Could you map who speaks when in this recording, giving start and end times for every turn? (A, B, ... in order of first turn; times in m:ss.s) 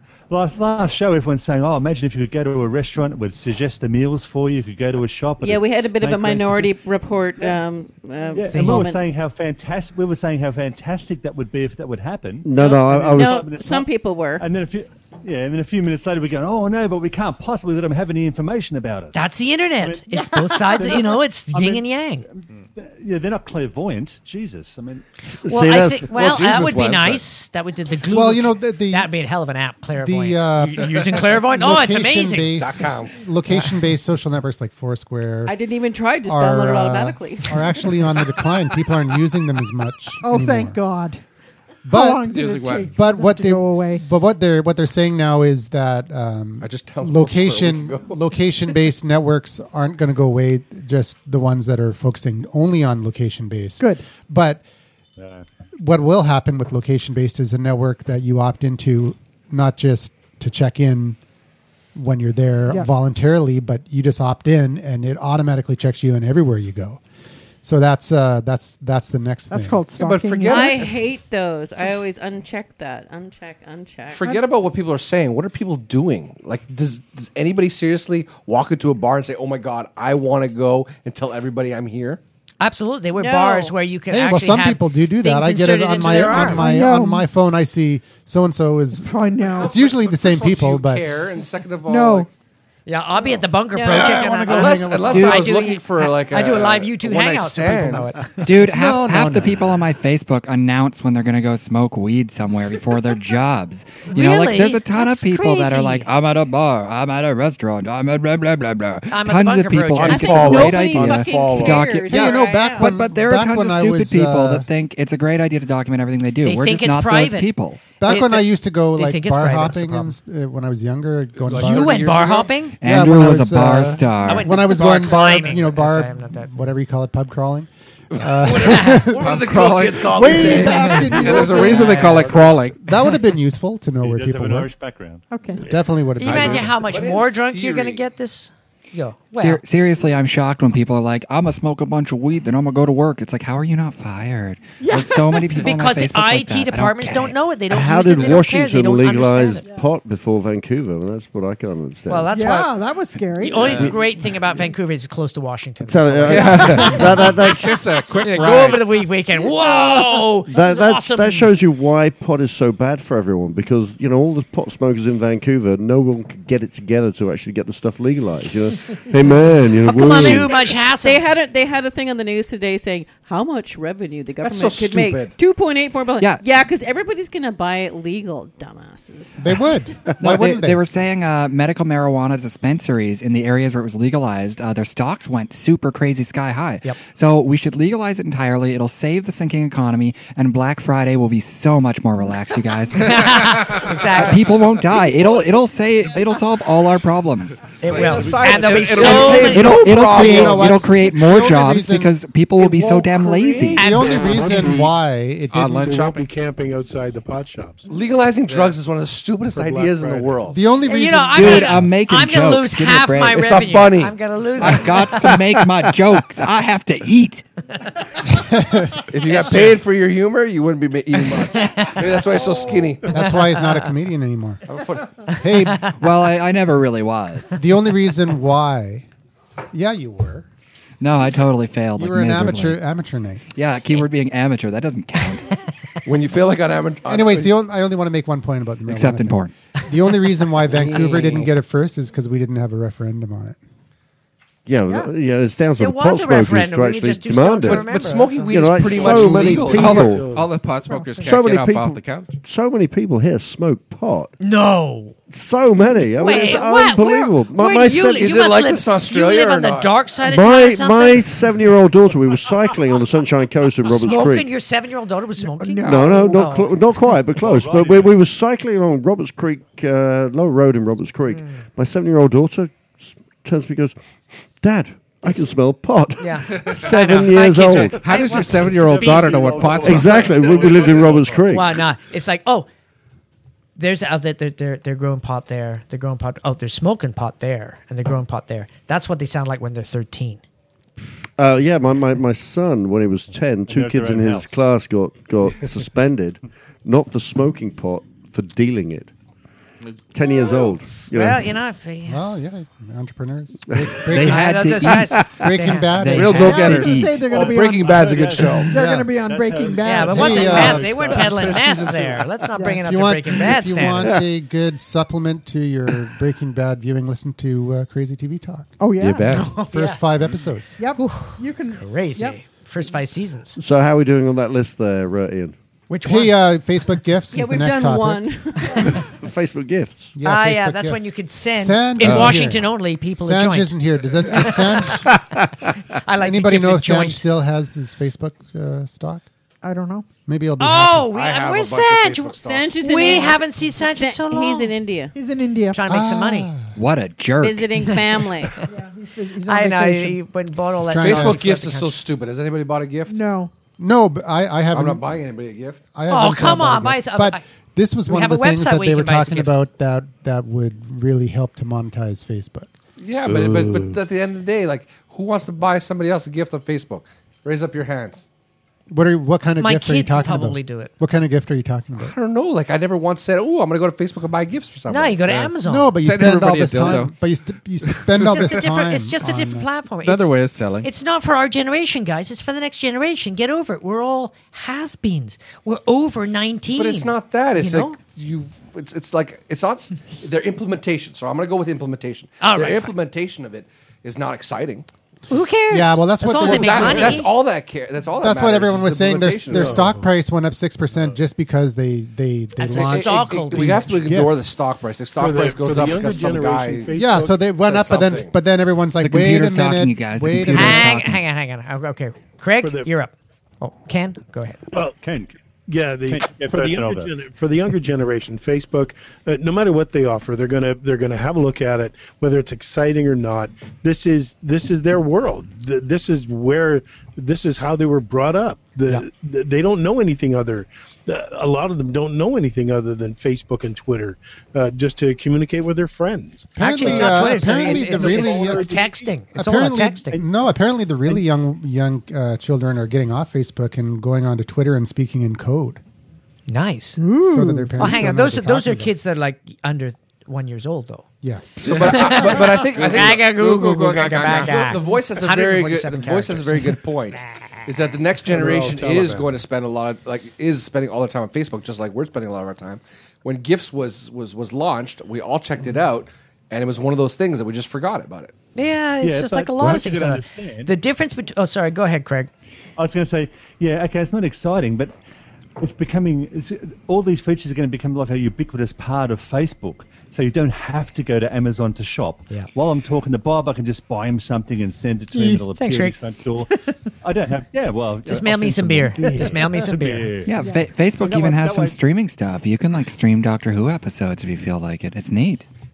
0:00.3-0:06.8 A
0:05.4-0:09.0 B
0:08.3-0:13.9 A
0:08.4-0:09.0 C
0:12.4-0:13.5 D
0:12.6-0:14.4 B
0:14.4-0:19.3 A
0:19.1-0:22.2 C
0:19.8-0:25.0 A
0:25.2-0:26.9 D
0:25.5-0:32.6 C
0:26.2-0:27.2 E
0:28.1-0:29.1 F
0:30.0-0:35.6 F
0:32.6-0:33.2 G
0:35.4-0:38.2 B
0:36.2-0:40.8 F
0:40.2-0:41.2 H
0:41.8-0:42.3 F
0:41.9-0:44.0 H
0:42.3-0:42.9 E
0:42.9-0:54.6 F
0:46.6-0:48.2 G
0:53.8-0:54.0 H
0:55.2-0:55.4 A
0:55.8-1:01.2 F
1:01.9-1:07.0 F
1:07.6-1:09.8 F
1:09.5-1:10.9 H
1:10.0-1:11.0 G
1:10.4-1:14.2 B
1:14.1-1:22.2 G
1:22.6-1:26.7 C
1:23.2-1:23.7 B
1:24.1-1:31.1 F
1:26.4-1:27.2 H
1:29.0-1:29.8 H
1:29.5-1:32.3 G
1:31.8-1:32.3 H
1:32.9-1:38.5 C
1:33.7-1:34.3 B
1:33.8-1:35.5 F
1:34.4-1:38.1 G
1:35.1-1:35.4 I
1:38.4-1:57.8 I
1:38.7-1:39.8 F
1:44.1-1:46.1 C
1:49.1-1:50.7 C
1:50.0-1:51.9 G
1:50.0-1:52.9 B
1:52.1-1:54.7 F
1:56.4-2:00.1 C
1:58.0-2:02.1 F
2:01.5-2:02.4 E
2:01.5-2:02.4 G
2:01.5-2:02.8 C
2:02.8-2:04.5 I
2:02.8-2:09.4 F
2:04.2-2:06.5 C
2:08.1-2:11.8 G
2:08.6-2:09.0 C
2:09.0-2:12.8 E
2:10.0-2:14.7 F
2:11.8-2:12.2 C
2:12.0-2:12.5 J
2:14.0-2:15.2 A
2:15.3-2:15.6 H
2:15.6-2:16.8 F
2:16.2-2:19.6 C
2:16.3-2:16.6 E
2:16.8-2:18.0 G
2:19.4-2:27.4 I
2:24.8-2:25.6 H
2:25.6-2:29.6 C
2:27.7-2:32.3 D
2:32.1-2:32.8 C
2:32.3-2:33.7 H
2:33.3-2:41.5 C
2:33.6-2:33.9 E
2:35.8-2:37.8 D
2:36.3-2:38.8 E
2:40.5-2:50.6 D
2:49.8-2:51.2 C
2:49.9-2:59.6 B
2:54.4-2:55.3 G
2:59.4-3:00.8 F
3:00.2-3:17.7 I
3:13.0-3:14.6 C
3:17.8-3:20.5 C
3:17.8-3:20.8 G
3:18.0-3:19.6 E
3:19.4-3:23.9 I
3:19.8-3:22.1 F
3:22.6-3:23.7 G
3:23.7-3:26.0 F
3:23.8-3:24.3 C
3:23.8-3:24.9 J
3:25.5-3:26.3 E
3:25.8-3:27.9 J
3:27.9-3:30.6 G
3:28.4-3:28.8 E
3:29.5-3:30.5 J
3:30.5-3:31.9 F
3:30.8-3:35.3 C
3:31.3-3:33.7 I
3:33.3-3:34.2 G
3:34.6-3:37.4 I
3:38.3-3:39.0 F
3:39.1-3:43.2 G
3:39.3-3:39.8 C
3:41.3-3:42.4 C
3:43.1-3:44.6 F
3:43.2-3:43.8 C
3:44.7-3:45.2 G
3:45.3-3:45.9 F
3:45.9-3:47.6 I
3:47.5-3:49.1 F
3:49.7-3:50.5 F
3:51.0-3:52.8 I
3:52.0-3:53.4 F
3:53.5-3:55.6 I
3:56.0-3:57.5 G
3:57.0-4:03.6 F
3:58.9-3:59.5 I
4:00.6-4:01.5 G
4:04.6-4:07.9 D
4:05.8-4:09.4 C
4:07.6-4:10.0 G
4:08.4-4:10.3 D
4:08.9-4:10.5 J
4:09.5-4:12.4 E
4:10.9-4:11.3 H
4:11.2-4:14.3 D
4:14.4-4:15.2 C
4:15.3-4:18.4 D
4:16.1-4:21.3 C
4:18.1-4:20.0 G
4:20.2-4:24.5 D
4:23.8-4:26.8 C
4:25.4-4:25.9 H
4:25.8-4:34.0 D
4:27.3-4:28.2 A
4:31.3-4:31.6 C
4:34.6-4:38.0 D
4:36.2-4:40.2 C
4:36.5-4:37.2 E
4:38.0-4:41.4 E
4:38.2-4:40.3 A
4:38.6-4:41.4 J
4:39.8-4:41.8 D
4:41.5-4:42.7 C
4:43.8-4:50.4 C
4:51.4-4:59.1 D
4:53.7-4:54.6 A
5:00.1-5:01.5 D
5:01.0-5:02.3 C
5:02.0-5:07.0 F
5:04.0-5:05.3 I
5:04.2-5:06.2 C
5:05.9-5:07.2 I
5:06.1-5:07.2 E
5:06.2-5:10.5 H
5:07.2-5:08.7 G
5:07.3-5:08.6 A
5:08.6-5:09.1 F
5:09.1-5:11.5 A
5:09.8-5:14.2 C
5:10.1-5:11.0 F
5:10.6-5:12.2 J
5:11.0-5:12.2 G
5:12.6-5:12.8 H
5:12.8-5:18.7 F
5:18.8-5:19.4 H
5:19.0-5:19.5 E
5:19.3-5:20.0 C
5:19.7-5:20.8 F
5:20.8-5:22.4 H
5:21.0-5:23.6 C
5:23.6-5:25.5 D
5:25.9-5:26.4 C
5:26.0-5:28.4 F
5:27.3-5:29.0 B
5:29.0-5:30.2 D
5:30.1-5:35.1 F
5:30.2-5:33.7 C
5:32.0-5:32.6 E
5:34.3-5:35.0 C
5:36.0-5:37.2 C
5:36.2-5:39.2 F
5:39.6-5:40.0 H
5:40.2-5:41.1 F
5:40.6-5:44.7 C
5:41.1-5:42.7 G
5:42.4-5:45.1 B
5:45.1-5:45.8 H
5:45.7-5:46.5 C
5:45.9-5:46.7 F
5:46.7-5:48.0 I
5:47.4-5:48.6 B
5:48.7-5:50.2 H
5:49.4-5:52.0 C
5:50.8-5:51.5 F
5:51.0-5:53.2 G
5:53.1-5:53.5 H
5:53.8-5:55.1 F
5:54.7-5:55.8 G
5:55.9-6:02.7 F
5:56.1-5:57.4 C
5:58.1-5:59.5 C
6:03.0-6:08.2 G
6:03.2-6:04.0 E
6:08.9-6:12.2 F
6:09.6-6:10.9 C
6:12.0-6:15.3 G
6:14.9-6:15.9 C
6:15.2-6:17.1 E
6:15.6-6:19.7 F
6:18.2-6:28.0 C
6:20.0-6:20.9 E
6:26.8-6:34.8 G
6:32.4-6:32.9 C
6:35.3-6:37.3 C
6:35.7-6:37.3 F
6:36.4-6:39.8 G
6:38.2-6:44.5 F
6:39.4-6:40.1 J
6:42.6-6:44.0 C
6:42.7-6:46.9 G
6:45.2-6:47.6 J
6:46.9-6:51.0 F
6:47.6-6:48.3 G
6:49.0-6:51.2 I
6:50.5-6:54.6 C
6:52.6-6:52.9 J
6:54.9-6:55.3 A
6:55.7-7:19.1 J
6:56.0-6:57.2 A
7:16.6-7:18.8 F
7:16.6-7:20.2 C
7:19.3-7:25.8 F
7:26.5-7:27.0 C
7:27.0-7:27.8 H
7:27.2-7:28.9 F
7:27.8-7:31.0 C
7:31.2-7:32.2 F
7:31.6-7:48.3 G
7:31.6-7:31.9 E
7:31.7-7:37.2 C
7:32.9-7:33.2 E
7:38.2-7:39.3 J
7:48.5-7:52.3 C
7:49.0-7:50.7 A
7:52.8-7:54.9 A
7:55.6-8:06.5 A
8:05.1-8:06.0 C
8:07.0-8:10.5 A
8:08.0-8:10.1 C
8:10.2-8:15.4 I
8:10.4-8:10.7 H
8:11.0-8:11.8 A